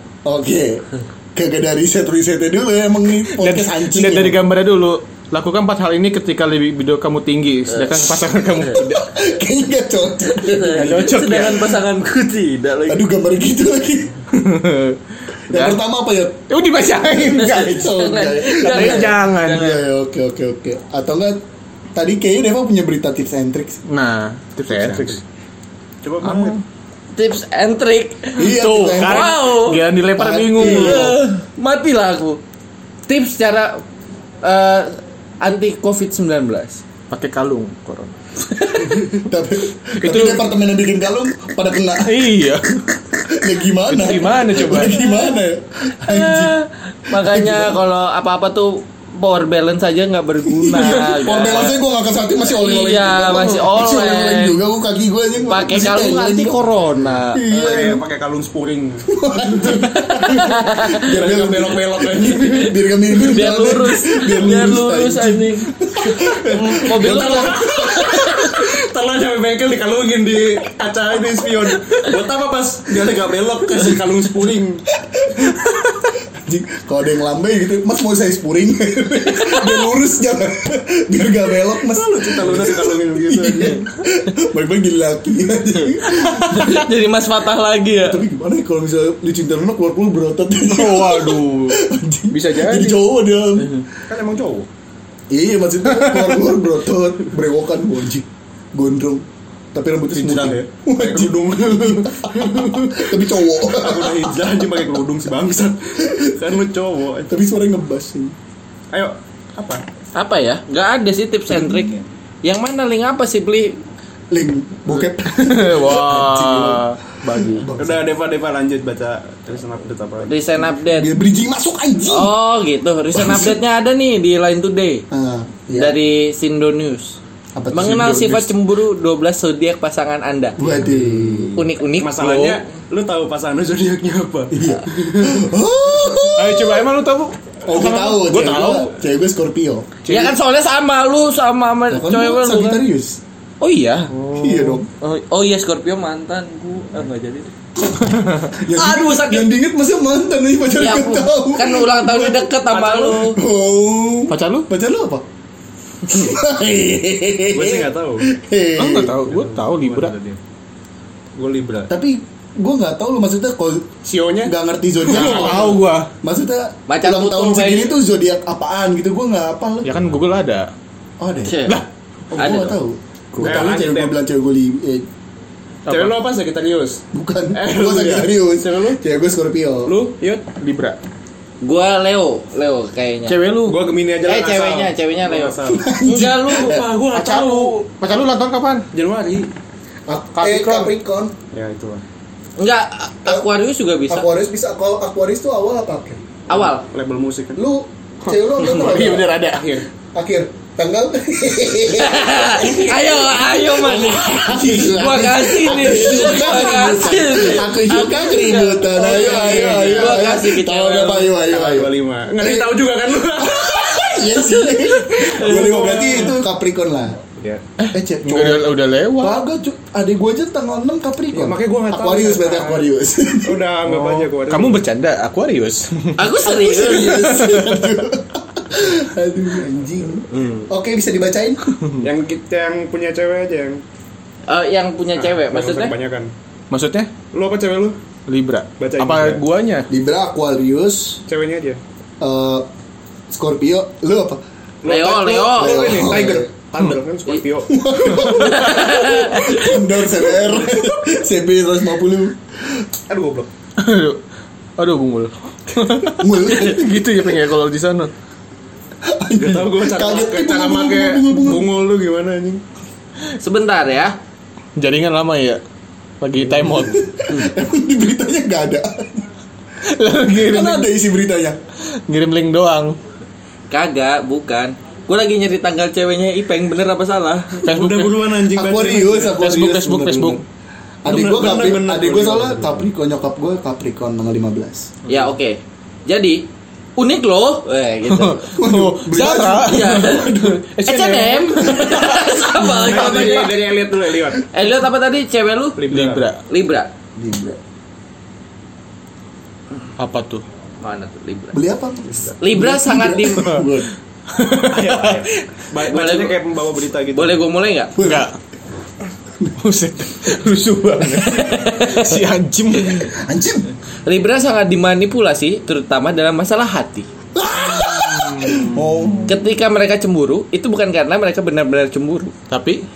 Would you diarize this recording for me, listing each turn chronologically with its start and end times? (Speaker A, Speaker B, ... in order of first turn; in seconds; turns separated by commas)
Speaker A: 0.2-4.4, Speaker B: 3.3-9.1, Speaker C: 7.7-8.1, Speaker A: 8.7-11.2, Speaker C: 10.3-13.1, Speaker B: 10.7-11.7, Speaker A: 12.9-14.2, Speaker B: 14.3-15.0, Speaker A: 15.5-16.4, Speaker B: 15.5-15.8, Speaker B: 16.5-17.9, Speaker C: 17.1-19.8, Speaker A: 17.3-21.4, Speaker B: 18.6-19.8, Speaker A: 21.9-23.8, Speaker B: 23.9-25.2, Speaker D: 24.7-25.2, Speaker D: 26.0-26.6, Speaker B: 26.2-26.6, Speaker C: 27.1-29.8, Speaker A: 28.4-29.4, Speaker B: 28.4-31.2, Speaker A: 30.1-31.2, Speaker C: 30.6-32.4, Speaker C: 33.1-33.8, Speaker C: 34.4-36.8, Speaker B: 37.1-38.1, Speaker C: 38.6-39.0, Speaker A: 38.8-42.4, Speaker B: 40.0-40.4, Speaker B: 42.0-42.8, Speaker A: 43.2-46.5, Speaker B: 43.9-44.9, Speaker C: 44.9-45.2, Speaker C: 46.1-51.8, Speaker A: 47.1-47.8, Speaker A: 50.5-56.6, Speaker C: 52.5-54.5, Speaker C: 55.5-58.0, Speaker A: 57.2-58.0, Speaker D: 57.5-59.1, Speaker A: 59.1-68.0, Speaker C: 59.6-61.0, Speaker D: 61.0-62.7, Speaker C: 63.1-68.6, Speaker D: 66.9-74.8, Speaker A: 75.1-86.9, Speaker D: 81.9-83.8, Speaker C: 86.1-88.2, Speaker A: 88.0-93.8, Speaker B: 90.6-93.0, Speaker D: 94.1-94.7, Speaker A: 95.3-104.5, Speaker B: 95.9-96.4, Speaker D: 100.1-107.3, Speaker A: 106.0-106.5, Speaker A: 107.3-108.3, Speaker D: 108.9-109.8, Speaker C: 110.1-113.8, Speaker A: 111.5-112.0, Speaker A: 114.3-118.0, Speaker B: 115.3-117.7, Speaker D: 117.8-120.3, Speaker C: 120.2-121.1, Speaker A: 120.9-122.3, Speaker C: 122.1-125.0, Speaker A: 123.1-123.6, Speaker A: 125.1-126.0, Speaker C: 125.8-127.2, Speaker A: 127.5-128.5, Speaker C: 127.7-130.6, Speaker A: 130.6-131.6, Speaker D: 130.8-135.3, Speaker C: 131.5-132.6, Speaker A: 134.5-136.8, Speaker B: 136.3-138.9, Speaker A: 137.6-139.9, Speaker B: 140.1-140.3, Speaker C: 140.1-142.8, Speaker A: 141.9-143.2, Speaker C: 143.6-144.1, Speaker B: 144.1-144.8, Speaker A: 144.3-144.9, Speaker C: 145.0-147.5, Speaker B: 148.1-148.5, Speaker A: 148.5-152.5, Speaker C: 148.7-149.5, Speaker C: 150.8-153.4, Speaker D: 152.7-153.3, Speaker A: 153.2-155.2, Speaker B: 154.3-154.7, Speaker A: 156.1-159.2, Speaker D: 157.5-158.3, Speaker B: 158.8-160.1, Speaker D: 159.2-160.4, Speaker D: 161.3-161.9, Speaker A: 161.9-163.9, Speaker D: 164.0-164.5, Speaker A: 164.4-170.0, Speaker D: 165.1-165.8, Speaker B: 165.1-166.1, Speaker C: 166.9-167.9, Speaker B: 169.8-170.7, Speaker A: 171.2-171.6, Speaker C: 171.4-171.8, Speaker A: 172.3-175.1, Speaker C: 172.3-172.8, Speaker B: 173.3-173.7, Speaker D: 173.4-174.2, Speaker B: 175.9-176.2, Speaker D: 175.9-177.0, Speaker A: 177.1-179.9, Speaker D: 177.5-179.0, Speaker D: 179.8-180.4, Speaker B: 180.6-181.0, Speaker C: 181.6-183.4, Speaker B: 183.3-183.9, Speaker D: 183.7-187.8, Speaker C: 184.2-186.8, Speaker A: 185.7-186.9, Speaker B: 187.1-188.8, Speaker D: 188.9-189.5, Speaker A: 190.1-191.3, Speaker B: 190.3-190.9, Speaker D: 191.5-192.0, Speaker C: 192.6-194.3, Speaker A: 194.1-196.2, Speaker C: 196.5-196.8, Speaker D: 196.5-197.6, Speaker A: 197.6-199.3, Speaker B: 198.3-199.8, Speaker D: 198.7-199.8, Speaker A: 200.1-212.8, Speaker C: 201.9-211.3, Speaker D: 209.0-210.3, Speaker D: 211.3-214.2, Speaker A: 213.4-217.2, Speaker C: 214.3-216.0, Speaker D: 215.2-216.3, Speaker D: 217.4-217.6, Speaker B: 217.8-219.4, Speaker A: 217.9-223.6, Speaker D: 221.3-222.9, Speaker D: 223.4-224.8, Speaker B: 223.8-226.3, Speaker C: 226.2-227.4, Speaker A: 226.4-231.8, Speaker B: 226.9-228.0, Speaker D: 232.0-233.8, Speaker C: 234.5-235.9, Speaker D: 235.2-236.3, Speaker B: 236.7-237.1, Speaker D: 237.3-238.0, Speaker B: 238.3-239.9, Speaker D: 238.8-239.4, Speaker A: 239.9-241.2, Speaker D: 241.3-241.8, Speaker A: 242.2-242.7, Speaker A: 243.3-244.4, Speaker D: 244.8-248.3, Speaker C: 244.8-246.1, Speaker A: 245.5-246.5, Speaker A: 247.7-252.8, Speaker C: 248.2-249.7, Speaker D: 250.3-250.8, Speaker D: 253.1-253.5, Speaker B: 253.8-254.2, Speaker B: 254.8-258.1, Speaker A: 256.2-256.9, Speaker A: 259.0-261.7, Speaker D: 259.4-262.6, Speaker C: 263.4-264.1, Speaker B: 264.8-265.6, Speaker B: 266.2-267.0, Speaker A: 266.5-269.3, Speaker B: 269.9-270.9, Speaker A: 270.3-271.6, Speaker B: 272.1-273.0, Speaker C: 273.7-277.7, Speaker B: 277.6-278.3, Speaker D: 277.6-279.5, Speaker A: 278.4-280.4, Speaker B: 279.4-280.4, Speaker A: 281.0-284.9, Speaker D: 281.1-282.8, Speaker C: 285.1-286.4, Speaker C: 287.0-288.5, Speaker B: 288.1-293.4, Speaker A: 288.6-290.6, Speaker C: 289.6-293.5, Speaker D: 292.9-294.4, Speaker C: 294.5-295.8, Speaker D: 295.8-296.3, Speaker B: 295.9-296.4, Speaker C: 296.5-296.9, Speaker A: 297.1-297.6, Speaker B: 300.0-300.4, Speaker C: 300.8-301.6, Speaker A: 301.5-303.9, Speaker C: 302.4-303.6, Speaker B: 304.3-305.2, Speaker D: 304.4-307.4, Speaker C: 305.8-306.4, Speaker C: 307.1-307.9, Speaker A: 307.9-308.3, Speaker B: 308.0-308.3, Speaker B: 309.6-313.1, Speaker C: 311.2-312.2, Speaker A: 313.2-313.7, Speaker C: 314.0-317.1, Speaker A: 317.3-319.4, Speaker B: 317.9-318.7, Speaker C: 319.3-322.3, Speaker B: 322.5-322.8